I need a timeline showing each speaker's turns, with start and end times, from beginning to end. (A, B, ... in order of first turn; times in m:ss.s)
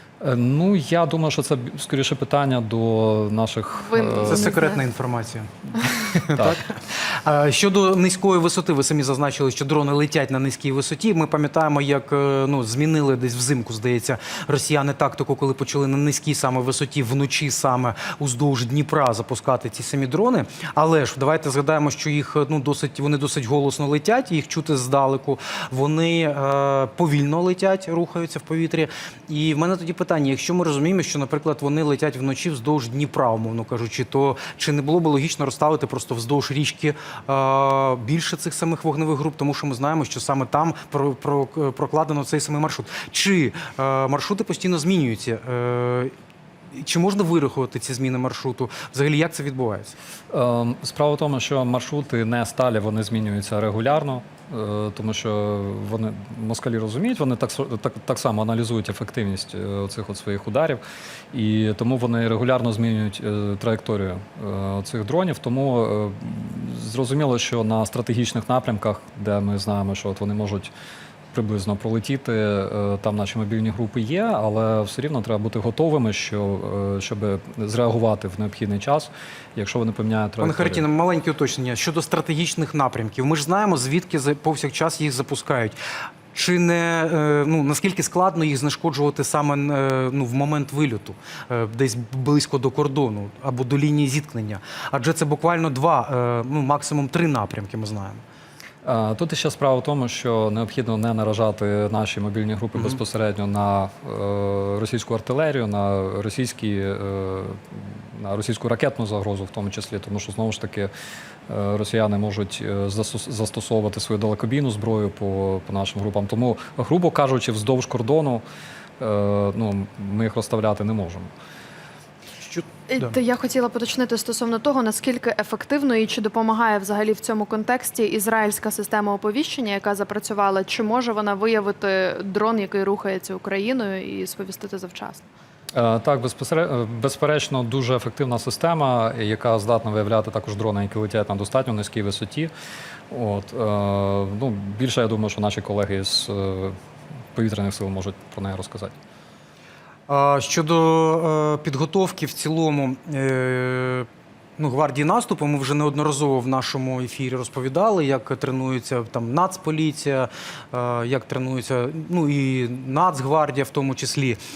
0:00.2-0:04.5 A
0:03.8-0:04.8 B
0:04.2-0:46.1 C
0:46.7-0:49.9 C
0:50.3-1:00.8 A
1:01.3-1:10.7 A
1:11.3-1:20.8 A
1:20.4-1:25.8 C
1:26.3-1:38.2 C
1:38.8-1:50.9 A
1:51.5-1:58.4 A
1:59.0-2:01.3 A
2:02.4-2:03.1 C
2:02.9-2:15.3 B
2:15.7-2:22.5 A
2:23.1-2:26.7 A
2:27.3-2:28.9 A
2:30.1-2:34.1 C
2:34.6-2:44.4 C